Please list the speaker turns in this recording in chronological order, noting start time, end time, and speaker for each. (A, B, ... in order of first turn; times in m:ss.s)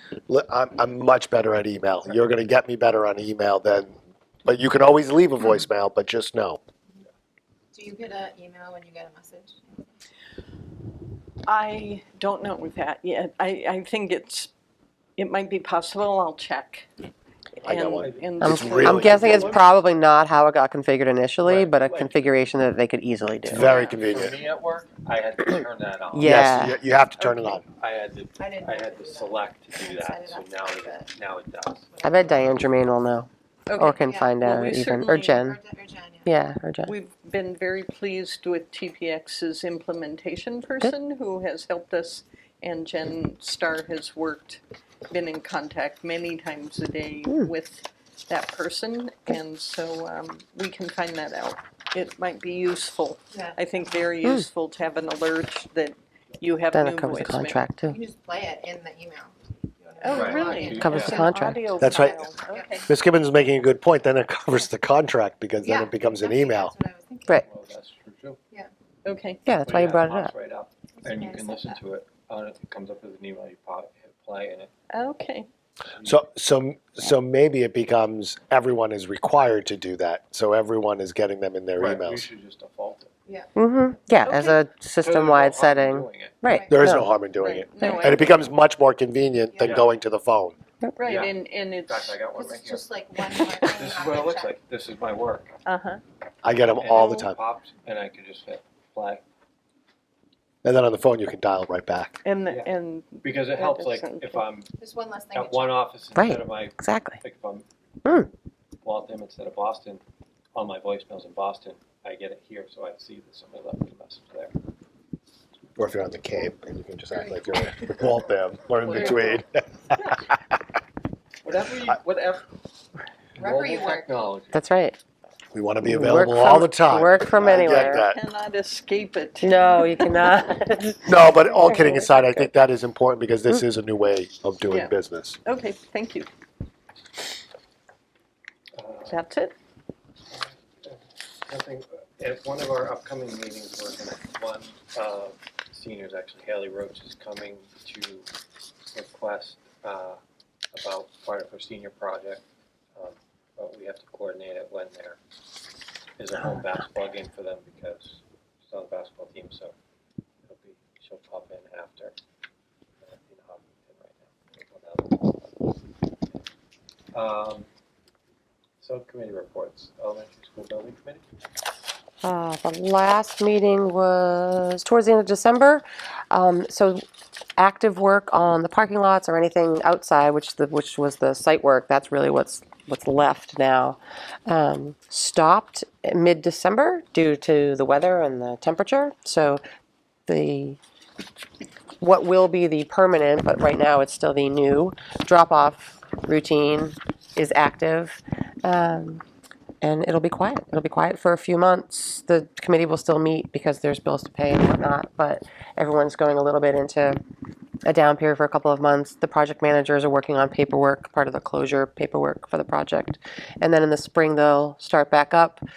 0:00.3-0:04.0 A
0:04.4-0:06.6 A
0:07.7-0:09.9 B
0:11.4-0:14.5 C
0:15.2-0:16.9 C
0:17.6-0:19.0 C
0:17.6-0:19.5 A
0:18.0-0:19.6 D
0:18.4-0:23.8 E
0:21.4-0:22.2 D
0:23.5-0:24.4 A
0:23.5-0:26.4 D
0:26.1-0:26.8 E
0:26.2-0:27.6 A
0:27.2-0:27.6 C
0:27.6-0:31.8 D
0:28.4-0:31.2 B
0:31.8-0:32.7 B
0:32.0-0:35.6 E
0:33.7-0:35.4 C
0:34.0-0:34.4 B
0:35.0-0:36.3 B
0:36.2-0:36.9 E
0:36.8-0:57.6 C
0:47.2-0:47.5 E
0:53.3-0:53.6 B
0:56.7-0:58.0 E
0:57.9-1:02.9 B
1:00.0-1:02.9 C
1:00.1-1:01.3 D
1:00.7-1:01.8 E
1:01.7-1:02.2 A
1:02.9-1:06.7 A
1:05.6-1:07.4 B
1:07.4-1:08.4 D
1:09.0-1:09.4 C
1:09.5-1:10.3 E
1:09.6-1:14.7 D
1:11.0-1:11.8 B
1:14.9-1:15.5 C
1:16.0-1:22.3 A
1:21.8-1:23.2 D
1:23.3-1:23.5 B
1:23.6-1:27.2 E
1:24.2-1:24.6 C
1:25.0-1:26.4 D
1:26.5-1:27.0 B
1:26.7-1:30.6 A
1:27.4-1:28.4 C
1:27.8-1:28.1 E
1:29.5-1:29.8 B
1:29.6-1:30.0 D
1:31.0-1:32.2 C
1:31.0-1:35.6 D
1:32.3-1:34.6 B
1:35.6-1:36.0 C
1:36.4-1:37.4 A
1:36.7-1:39.2 D
1:37.0-1:37.3 C
1:40.6-1:42.2 A
1:42.2-1:44.4 C
1:42.5-1:44.7 D
1:44.8-1:45.8 B
1:45.3-1:47.7 D
1:46.1-1:47.2 E
1:48.0-1:48.3 E
1:48.8-1:50.0 D
1:50.6-1:54.6 D
1:55.8-1:59.6 A
1:58.8-1:59.4 D
1:58.9-1:59.4 C
2:00.0-2:00.3 D
2:01.4-2:02.5 D
2:03.4-2:04.6 D
2:03.4-2:04.2 B
2:04.5-2:05.0 E
2:05.5-2:08.2 A
2:05.8-2:08.1 E
2:07.2-2:07.6 D
2:07.6-2:10.4 C
2:09.4-2:12.5 E
2:11.1-2:15.4 A
2:11.7-2:12.2 C
2:14.7-2:14.9 C
2:15.4-2:16.3 C
2:18.7-2:19.2 D
2:19.1-2:19.6 C
2:20.3-2:28.3 D
2:28.9-2:30.2 D
2:30.7-2:35.2 D
2:36.2-2:39.7 D
2:40.5-2:42.2 D
2:43.0-2:45.8 D
2:47.1-2:47.7 D
2:48.8-2:51.2 D
2:52.2-2:57.1 E
2:57.6-3:09.6 E
3:10.3-3:10.8 E
3:12.0-3:19.2 E
3:19.8-3:27.2 E
3:27.8-3:35.6 E